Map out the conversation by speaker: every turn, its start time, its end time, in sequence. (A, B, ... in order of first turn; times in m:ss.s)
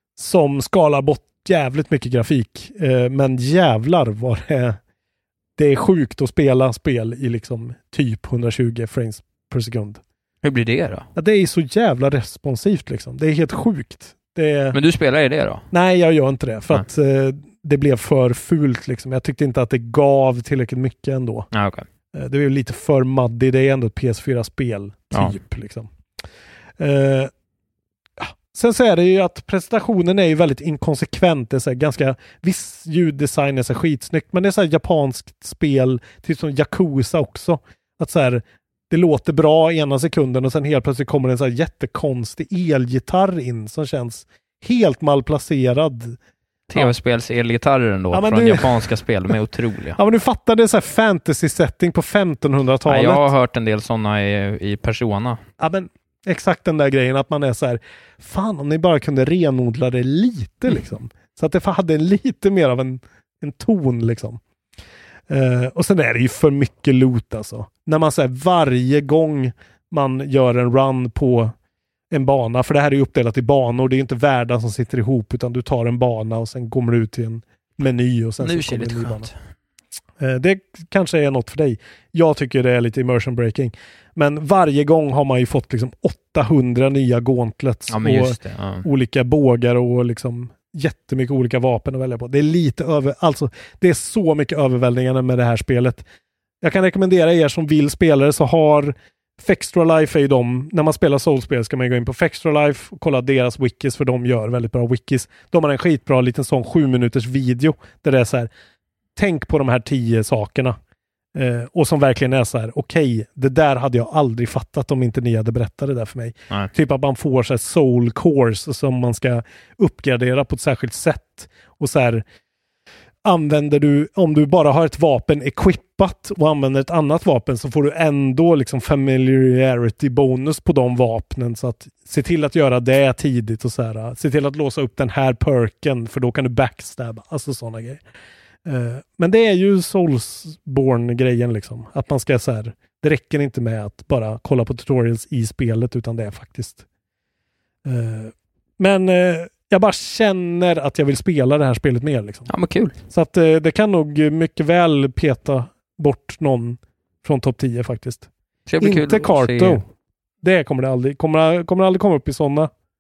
0:00.2-0:04.8 A
0:05.6-0:10.0 A
0:10.4-0:11.1 B
0:11.2-0:14.8 A
0:14.7-0:15.6 B
0:15.7-0:21.5 A
0:21.5-0:21.8 B
0:22.1-0:25.9 A
0:26.8-0:27.3 A
0:28.2-0:46.2 A
0:46.7-0:50.0 B
0:48.1-0:48.9 A
0:50.0-0:53.3 A
0:52.9-0:55.4 B
0:55.6-1:04.4 A
1:05.3-1:11.5 A
1:12.1-1:19.3 A
1:18.4-1:19.3 B
1:20.2-1:36.0 A
1:27.9-1:28.9 B
1:36.6-1:48.5 A
1:49.2-1:50.8 A
1:51.4-2:02.2 A
2:03.2-2:18.0 A
2:18.6-2:26.8 A
2:27.8-2:32.5 A
2:32.5-2:33.0 B
2:33.1-2:38.3 A
2:38.7-2:39.8 B
2:38.8-2:39.9 A
2:40.4-2:42.7 A